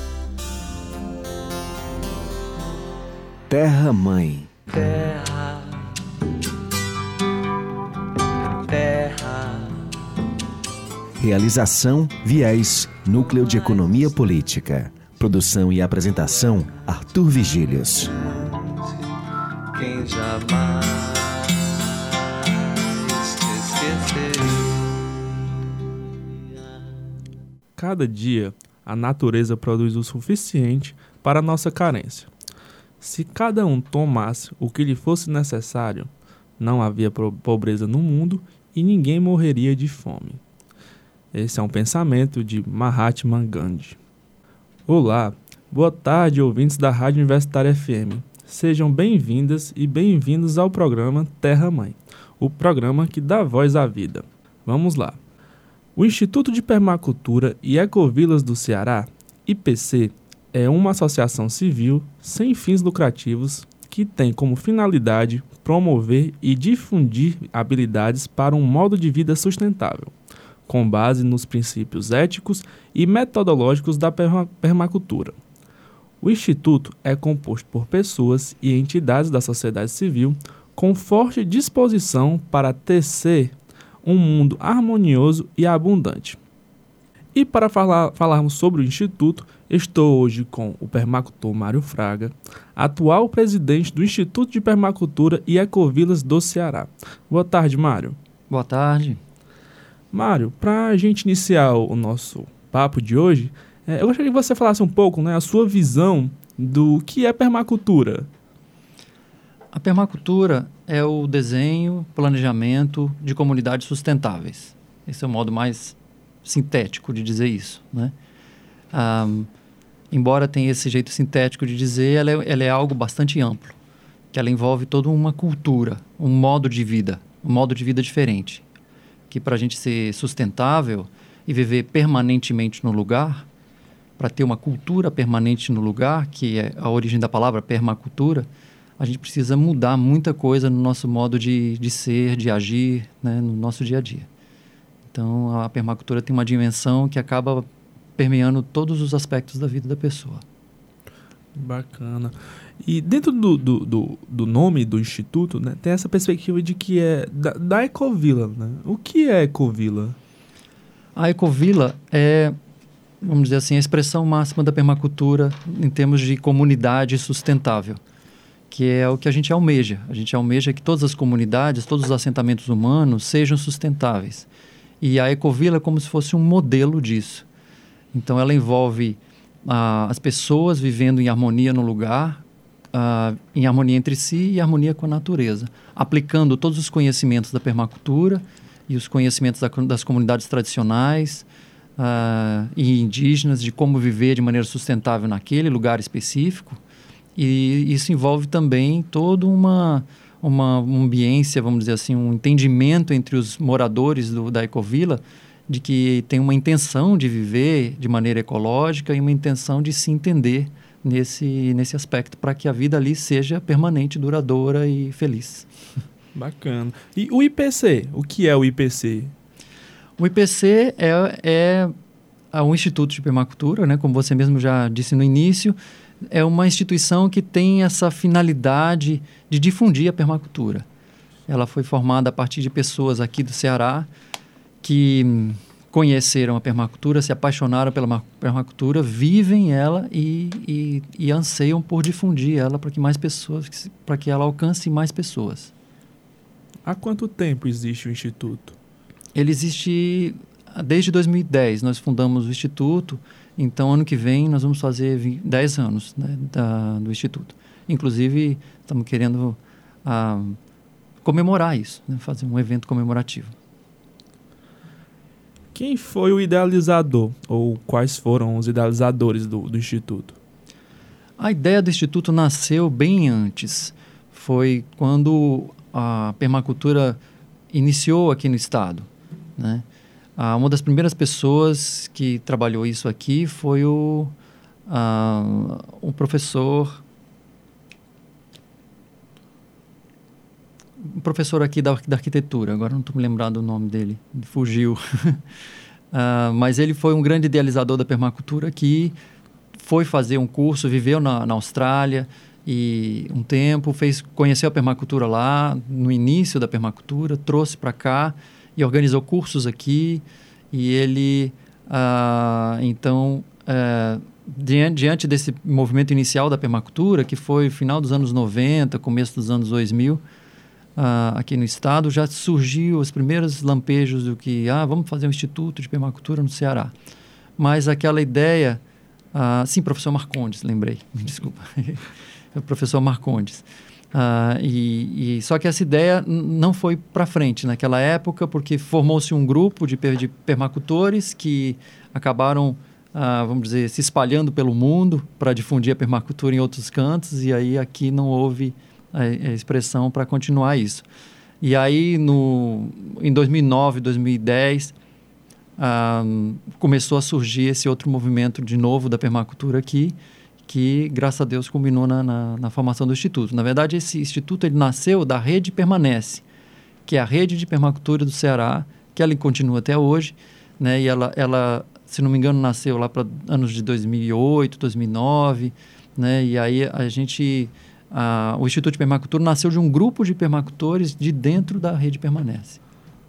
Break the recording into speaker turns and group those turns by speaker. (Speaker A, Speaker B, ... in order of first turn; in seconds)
Speaker A: 3.5-4.5, 11.2-18.1
Speaker B: 4.7-6.2, 8.5-10.3, 18.0-19.1, 19.7-25.0, 26.1-26.9
Speaker C: 27.8-32.3, 33.0-40.4, 41.3-44.0, 44.9-55.2, 56.0-70.1, 70.7-75.3, 76.2-86.4, 87.3-98.2, 100.1-108.3, 151.6-160.2, 216.3-219.3, 246.8-248.8, 265.8-270.4
Speaker D: 98.5-99.2, 109.7-118.1, 118.9-119.5, 120.1-123.8, 124.3-128.7, 129.3-133.5, 134.2-138.5, 139.0-144.3, 145.1-150.4, 161.2-162.6, 163.2-168.0, 168.7-174.5, 175.0-177.4, 178.1-191.5, 192.0-196.8, 197.4-215.7, 220.2-221.9, 222.5-230.9, 231.5-234.1, 234.8-245.7, 249.3-260.6, 261.2-263.5, 271.4-277.2, 277.7-279.9, 280.4-284.3, 284.9-287.0, 291.0-295.4, 296.1-299.2, 299.8-320.2, 321.0-326.9, 327.6-328.8, 329.3-351.1, 351.6-354.9, 355.8-366.4, 367.1-382.8